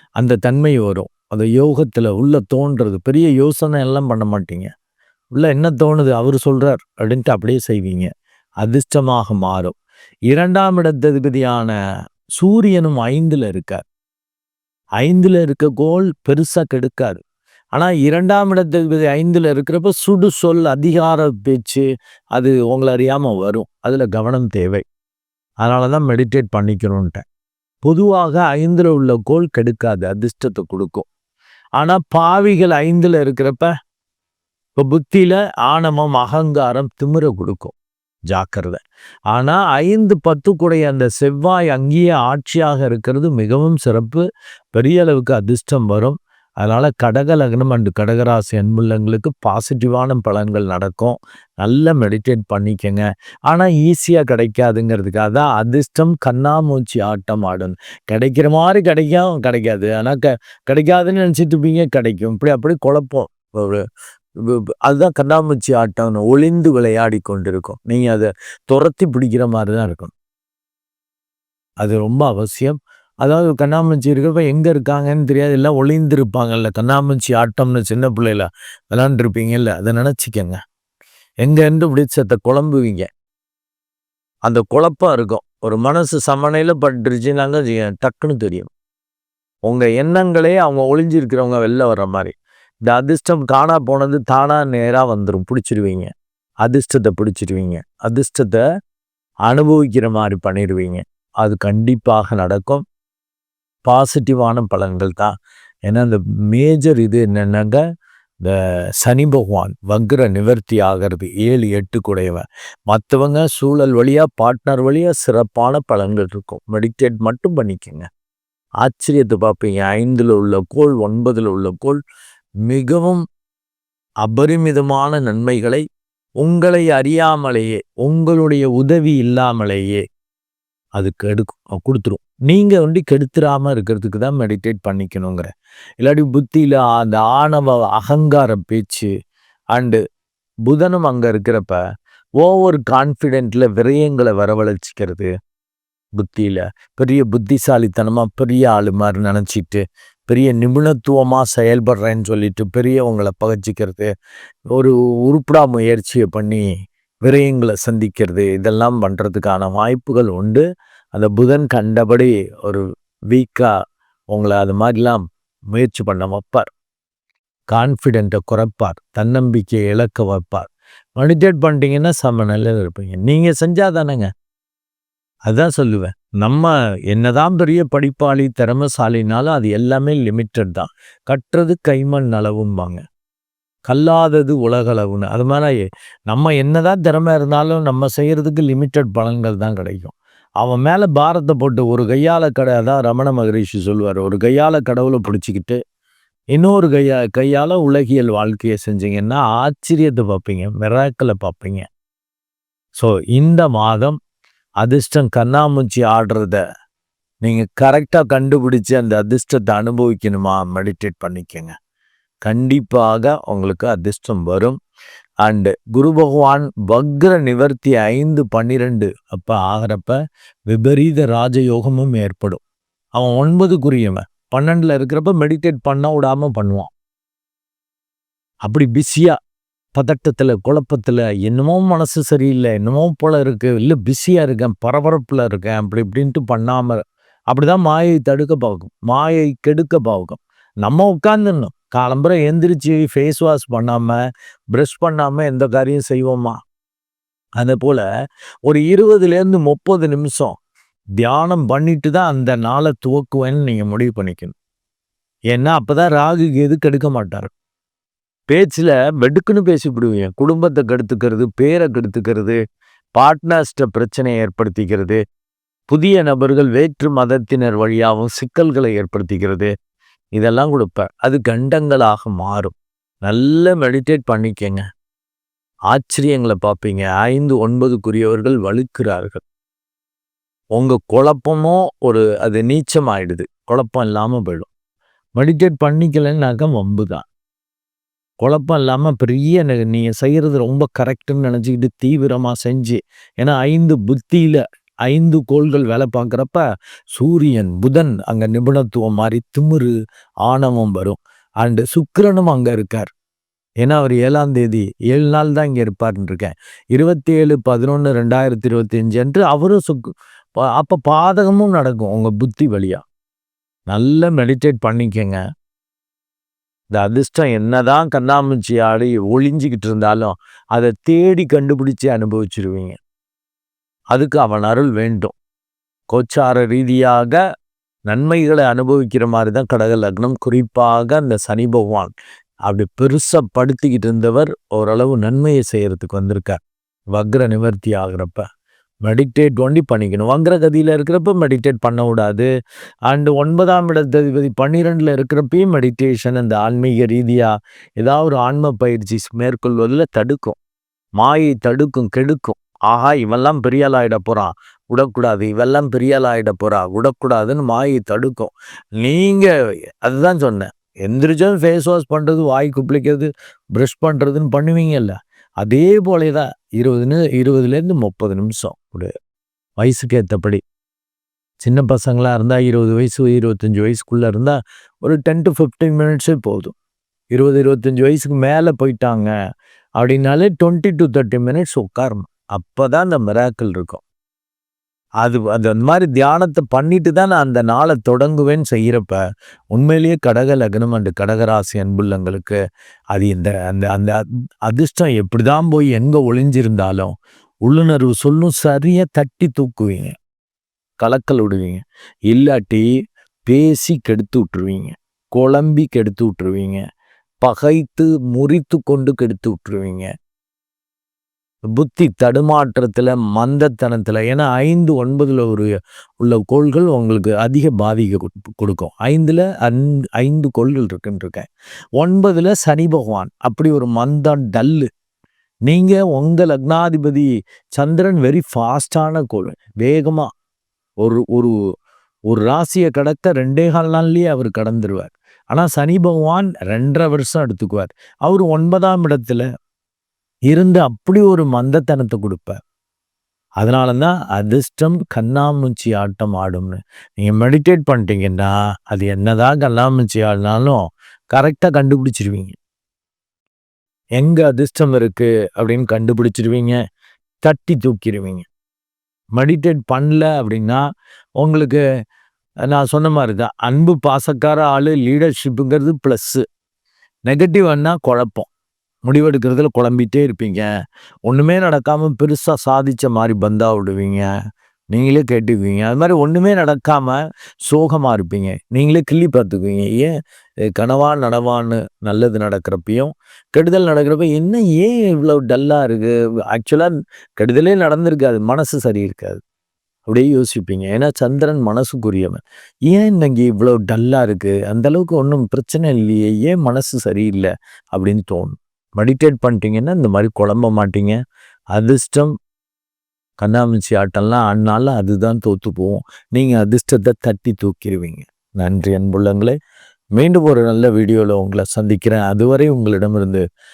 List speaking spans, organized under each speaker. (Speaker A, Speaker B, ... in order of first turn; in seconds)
Speaker A: 0.2-4.7, 5.3-8.1, 8.6-9.8, 10.3-11.8, 12.4-13.8, 15.0-17.2, 17.8-24.8, 25.6-27.2, 27.8-31.1, 31.8-33.7, 34.8-37.8, 38.3-38.8, 39.3-63.9, 64.5-70.1, 71.8-80.6, 81.4-83.1, 84.5-88.7, 89.7-92.3, 92.9-96.1, 96.6-98.6, 99.5-102.8, 103.8-105.3, 105.9-107.8, 108.4-118.1, 118.8-122.0, 122.7-123.2, 124.2-125.8, 126.4-130.0, 131.0-135.5, 136.0-139.1, 139.8-140.0, 140.7-141.8, 142.4-145.3, 146.2-154.1, 154.7-156.7, 157.2-163.7, 164.3-166.7, 167.7-174.3, 175.5-183.0, 183.9-195.8, 196.5-201.8, 203.0-204.2, 204.8-206.6, 207.4-211.7, 212.4-214.8, 215.4-220.2, 220.7-222.6, 223.2-226.9, 228.7-229.4, 229.9-237.0, 237.5-244.2, 244.7-246.6, 247.6-248.0, 248.7-250.5, 251.2-254.6, 255.5-257.5, 258.5-262.6, 263.1-265.2, 265.9-269.7, 270.4-272.7, 273.2-274.8, 275.9-279.4, 280.8-284.7, 285.4-287.2, 288.4-299.9, 300.4-303.1, 303.8-313.0, 313.9-315.4, 316.9-323.0, 324.1-325.4, 326.1-327.4, 328.1-332.1, 332.7-336.6, 337.1-338.4, 339.1-342.5, 343.1-350.6, 351.2-359.5, 360.0-369.1, 369.8-370.6, 371.6-376.7, 377.3-379.3, 380.0-384.0, 385.2-389.2, 389.7-392.6, 393.1-397.1, 397.6-400.1, 401.0-402.9, 403.5-406.8, 407.4-410.1, 411.7-415.7, 416.2-421.5, 422.0-424.9, 425.7-430.3, 431.0-431.5, 432.3-439.4, 440.5-442.6, 443.6-450.8, 451.3-452.6, 454.2-456.8, 457.4-458.5, 459.4-460.8, 461.4-461.8, 462.7-466.4, 467.3-468.5, 469.1-470.7, 471.3-474.3, 474.9-480.1, 480.7-489.4, 490.1-501.2, 501.7-502.3, 503.4-509.6, 510.2-513.4